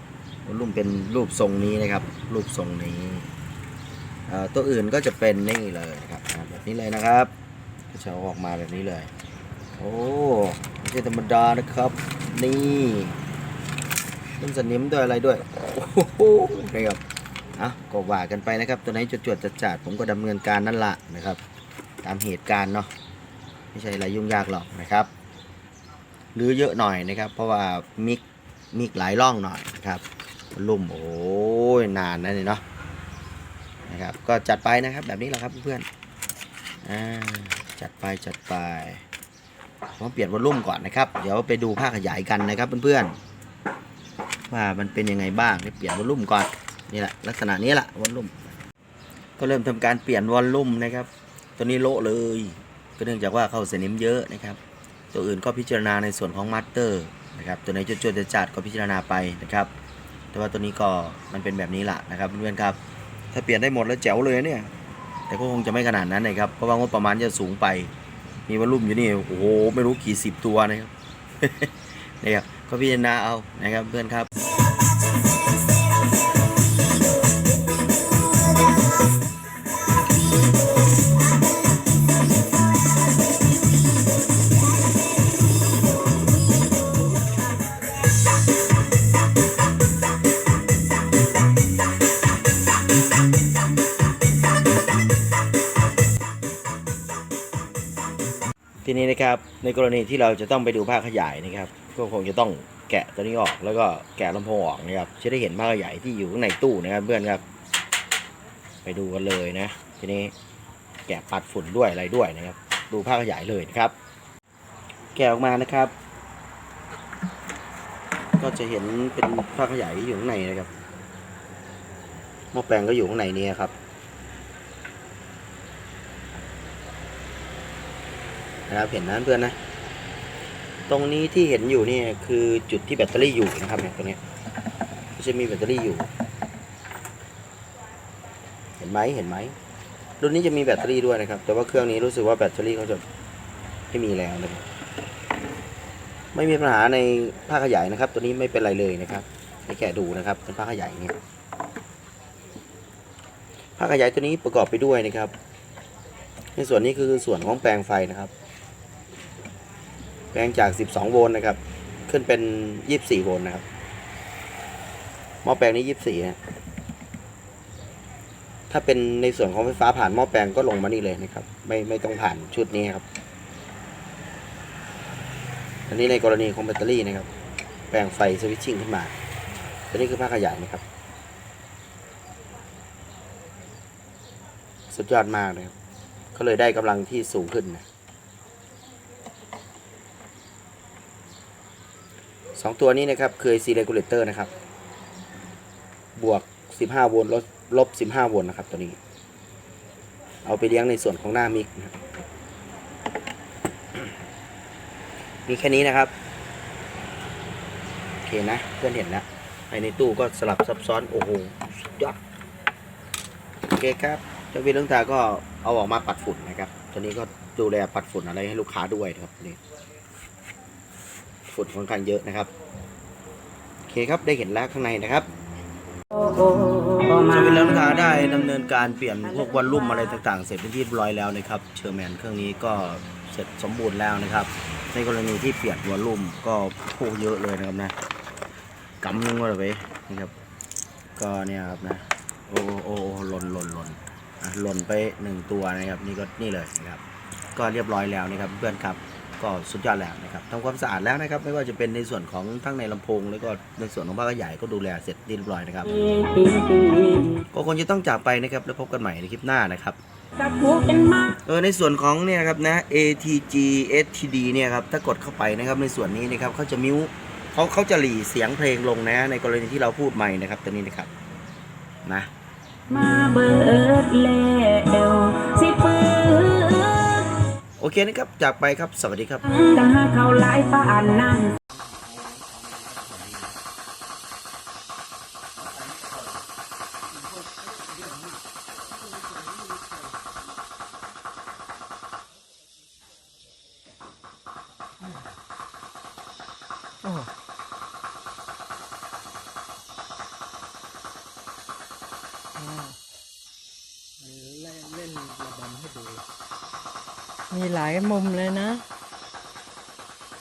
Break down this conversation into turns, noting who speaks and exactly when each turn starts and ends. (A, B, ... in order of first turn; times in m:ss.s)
0:00.4-0:03.3 A
0:04.3-0:07.3 A
0:07.9-0:09.1 A
0:09.8-0:13.2 A
0:14.4-0:17.0 A
0:17.6-0:21.4 A
0:22.0-0:22.9 A
0:23.7-0:25.1 A
0:26.3-0:28.2 A
0:28.7-0:32.6 A
0:33.9-0:35.8 A
0:36.8-0:39.0 A
0:40.0-0:43.2 A
0:44.5-0:48.5 A
0:49.4-0:54.6 A
0:55.1-0:59.7 A
1:00.3-1:02.8 A
1:03.3-1:04.7 A
1:05.3-1:07.9 A
1:08.5-1:14.3 A
1:38.8-1:47.4 A
1:48.8-1:50.3 A
1:51.1-1:54.0 A
1:55.1-1:55.9 A
1:58.4-2:00.7 A
2:02.5-2:03.7 A
2:08.7-2:09.6 A
2:10.9-2:14.2 A
2:15.2-2:16.1 A
2:18.8-2:19.5 A
2:20.2-2:23.0 A
2:23.9-2:24.6 A
2:26.3-2:31.1 A
2:33.8-2:35.3 A
2:36.6-2:38.3 A
2:40.3-2:43.6 A
2:45.4-2:46.4 A
2:48.7-2:53.0 A
2:55.9-2:57.3 A
2:57.9-2:59.1 A
2:59.9-3:00.8 A
3:04.9-3:05.7 A
3:06.3-3:07.8 A
3:12.5-3:14.5 A
3:16.2-3:19.0 A
3:20.4-3:21.9 A
3:25.5-3:26.1 A
3:28.2-3:32.2 A
3:33.7-3:39.6 A
3:41.5-3:42.5 A
3:43.9-3:45.3 A
3:46.1-3:47.8 B
3:47.1-3:57.9 A
3:49.3-3:50.2 B
3:59.0-4:00.3 A
4:01.2-4:07.0 A
4:07.6-4:15.9 A
4:15.9-4:17.4 B
4:17.5-4:20.0 A
4:20.4-4:21.3 B
4:21.4-4:31.1 A
4:32.9-4:37.4 B
4:37.8-4:39.5 A
4:39.5-4:41.5 B
4:57.0-4:57.3 C
5:02.6-5:03.0 C
5:04.2-5:06.2 C
5:07.5-5:08.8 C